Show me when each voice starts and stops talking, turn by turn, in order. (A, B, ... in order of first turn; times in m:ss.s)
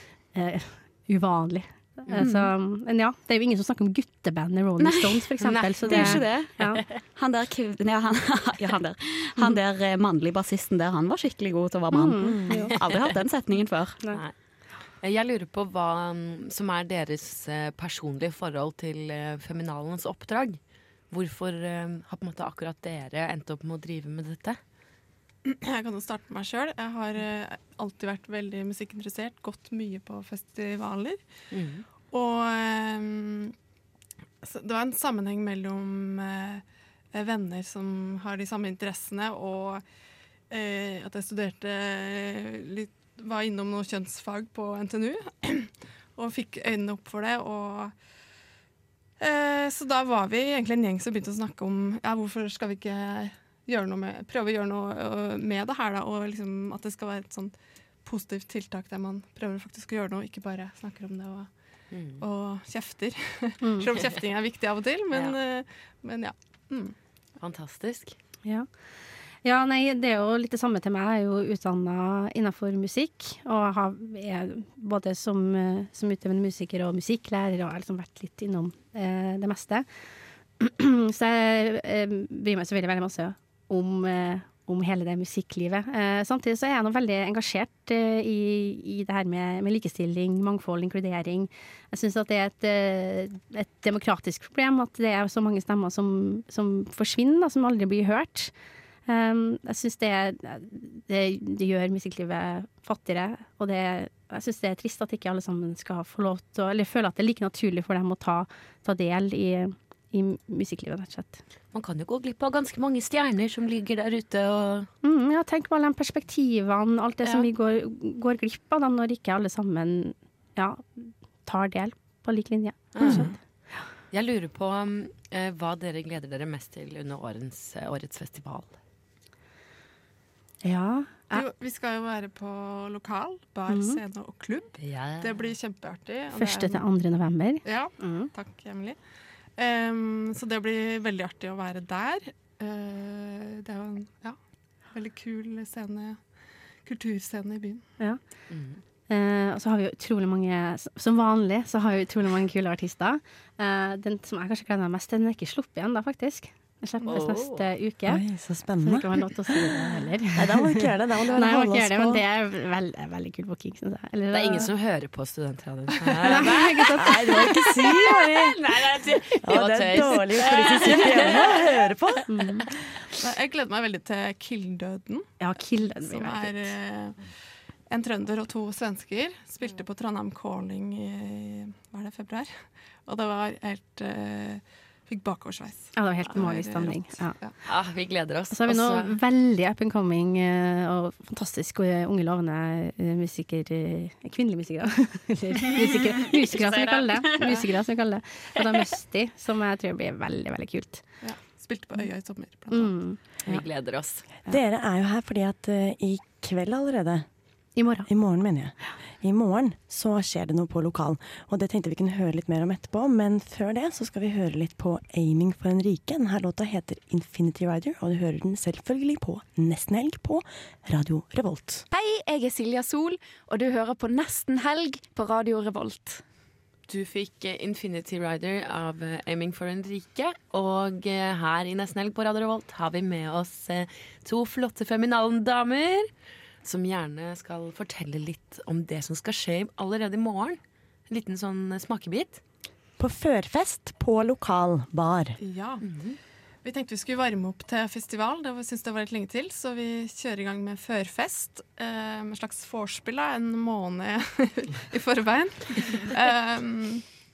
0:00.3-0:06.8 A
0:02.2-0:02.5 B
0:04.8-0:05.3 B
0:05.4-0:06.2 C
0:05.8-0:06.6 B
0:07.1-0:14.0 B
0:11.9-0:12.8 A
0:15.0-0:20.6 C
0:21.1-0:24.6 C
0:25.4-0:31.2 D
0:31.5-0:31.8 C
0:32.1-0:33.5 D
0:34.4-0:39.8 D
0:40.5-0:47.9 D
0:49.2-0:57.5 D
0:58.0-1:01.5 D
1:01.9-1:02.2 C
1:02.2-1:06.9 D
1:03.6-1:03.9 A
1:07.4-1:08.2 C
1:09.4-1:19.8 A
1:20.6-1:38.5 A
1:39.1-1:51.4 A
1:51.7-1:54.9 C
1:55.0-2:03.3 A
2:02.9-2:03.3 C
2:03.0-2:03.3 E
2:04.1-2:08.7 C
2:10.6-2:11.4 A
2:11.3-2:16.8 D
2:13.7-2:14.0 A
2:14.8-2:15.4 C
2:16.3-2:18.3 A
2:17.6-2:19.0 D
2:19.6-2:24.4 D
2:24.9-2:26.2 D
2:26.8-2:27.8 D
2:28.5-2:28.8 C
2:29.1-2:38.2 A
2:37.0-2:37.7 C
2:38.0-2:39.1 E
2:38.8-2:44.7 A
2:40.3-2:42.2 E
2:44.3-2:46.8 C
2:46.2-2:47.7 A
2:46.9-2:48.6 E
2:48.0-2:51.7 C
2:49.4-2:52.2 E
2:52.3-2:52.7 A
2:53.2-2:55.3 D
2:55.4-2:56.7 A
2:56.0-2:57.2 D
2:57.9-3:02.5 D
3:03.0-3:07.5 D
3:05.9-3:07.4 A
3:07.6-3:09.1 C
3:08.5-3:21.0 A
3:16.4-3:17.6 B
3:21.2-3:22.9 D
3:22.7-3:23.6 A
3:23.4-3:24.3 C
3:24.4-3:27.2 E
3:27.8-3:28.1 A
3:28.1-3:41.8 E
3:41.9-3:46.2 F
3:46.9-3:56.1 C
3:56.6-4:02.4 C
4:03.0-4:05.3 E
4:05.4-4:05.8 D
4:05.8-4:06.2 C
4:06.6-4:17.0 D